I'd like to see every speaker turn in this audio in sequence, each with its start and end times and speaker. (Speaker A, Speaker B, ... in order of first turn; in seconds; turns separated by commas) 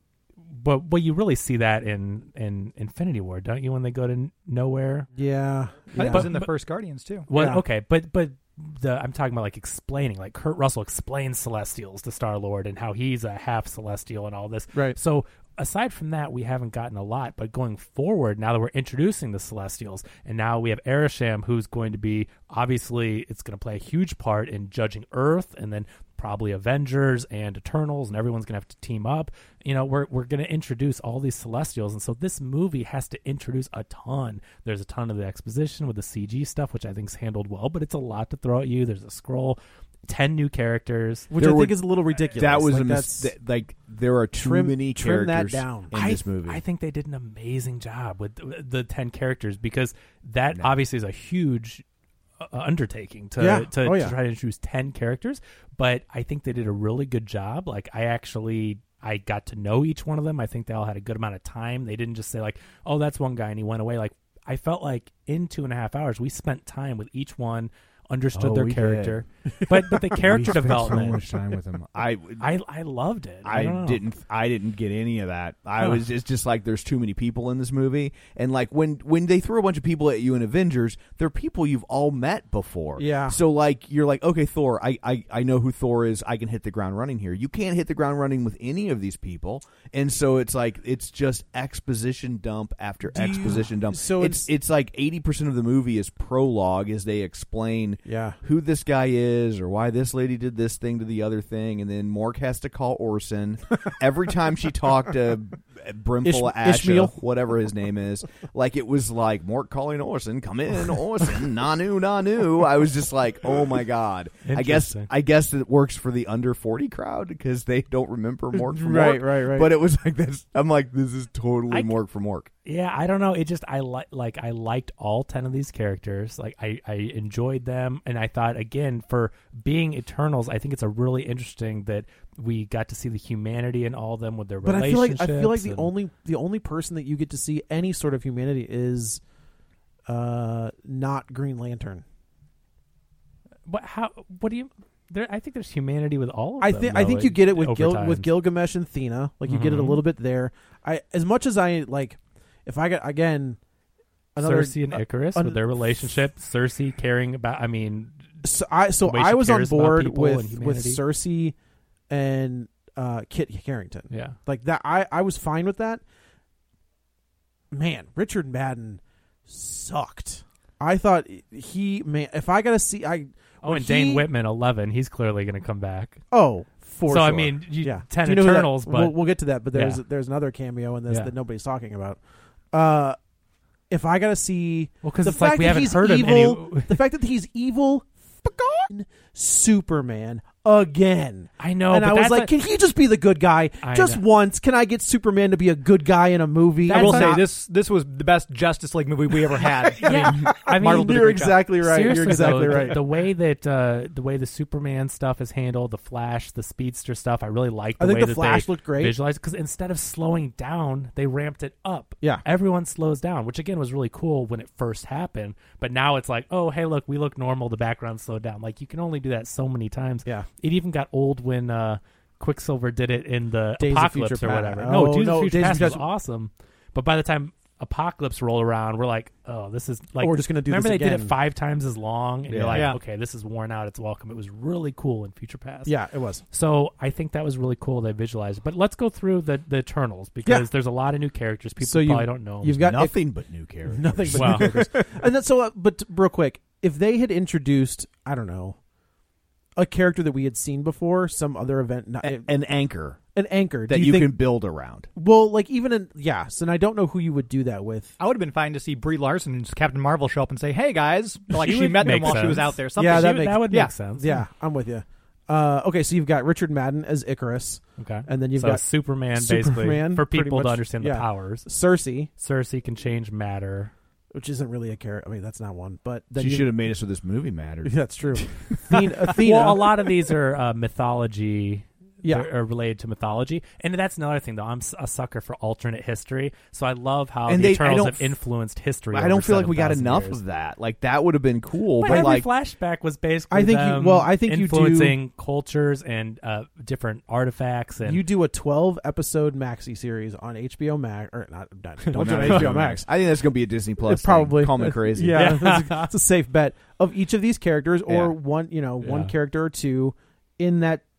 Speaker A: 0.5-5.1, Speaker B: 5.1-6.3, Speaker C: 5.9-7.3, Speaker A: 6.0-6.5, Speaker A: 7.3-41.3, Speaker B: 7.3-7.6, Speaker B: 41.3-43.3, Speaker D: 41.4-41.8, Speaker D: 42.3-46.6, Speaker B: 44.3-46.0, Speaker A: 45.9-51.8, Speaker A: 52.4-71.2, Speaker B: 53.4-54.1, Speaker D: 68.3-69.2, Speaker D: 70.2-72.5, Speaker B: 70.5-70.8, Speaker A: 72.4-74.0, Speaker D: 73.4-122.5, Speaker B: 83.0-83.4, Speaker B: 93.1-94.5, Speaker B: 98.0-98.4, Speaker B: 106.2-107.2, Speaker A: 114.4-115.1, Speaker B: 118.5-119.7, Speaker A: 122.6-135.9, Speaker B: 134.6-139.2, Speaker B: 140.1-142.0, Speaker A: 143.7-148.3, Speaker B: 146.6-153.6, Speaker A: 149.5-150.0, Speaker B: 154.3-155.6, Speaker A: 154.4-158.2, Speaker B: 158.4-161.5, Speaker A: 159.0-161.0, Speaker B: 162.1-166.0, Speaker A: 164.1-164.4, Speaker B: 167.7-174.2, Speaker A: 173.6-176.2, Speaker B: 176.3-182.2, Speaker A: 177.1-179.2, Speaker A: 179.7-180.0, Speaker B: 182.7-183.2, Speaker B: 183.9-197.4, Speaker A: 185.0-187.0, Speaker A: 191.6-192.5, Speaker A: 193.8-194.2, Speaker A: 196.8-197.4, Speaker C: 196.9-201.7, Speaker B: 199.8-203.0, Speaker A: 200.0-235.9, Speaker B: 208.0-209.2, Speaker B: 223.8-226.0, Speaker B: 230.2-231.3, Speaker D: 232.5-232.9, Speaker C: 232.7-233.0, Speaker B: 235.8-236.4, Speaker A: 236.5-243.0, Speaker B: 241.8-243.2, Speaker D: 242.8-245.1, Speaker B: 243.8-248.8, Speaker A: 244.3-244.8, Speaker B: 249.8-252.5, Speaker D: 252.2-253.2, Speaker B: 253.3-254.4, Speaker D: 253.9-255.1, Speaker B: 255.1-258.1, Speaker C: 258.2-263.9, Speaker A: 261.5-264.4, Speaker B: 262.1-262.3, Speaker B: 262.9-272.3, Speaker A: 268.0-271.7, Speaker A: 272.4-273.9, Speaker B: 274.3-276.7, Speaker D: 276.4-279.1, Speaker B: 277.8-280.1, Speaker A: 279.3-290.4, Speaker B: 282.2-282.5, Speaker D: 287.5-288.4, Speaker D: 289.1-292.5, Speaker A: 292.0-298.2, Speaker B: 292.1-292.4, Speaker B: 293.5-295.1, Speaker B: 298.0-303.1, Speaker D: 302.1-305.6, Speaker A: 302.4-302.7, Speaker B: 304.0-311.0, Speaker A: 305.3-306.1, Speaker D: 308.1-308.4, Speaker A: 309.0-309.3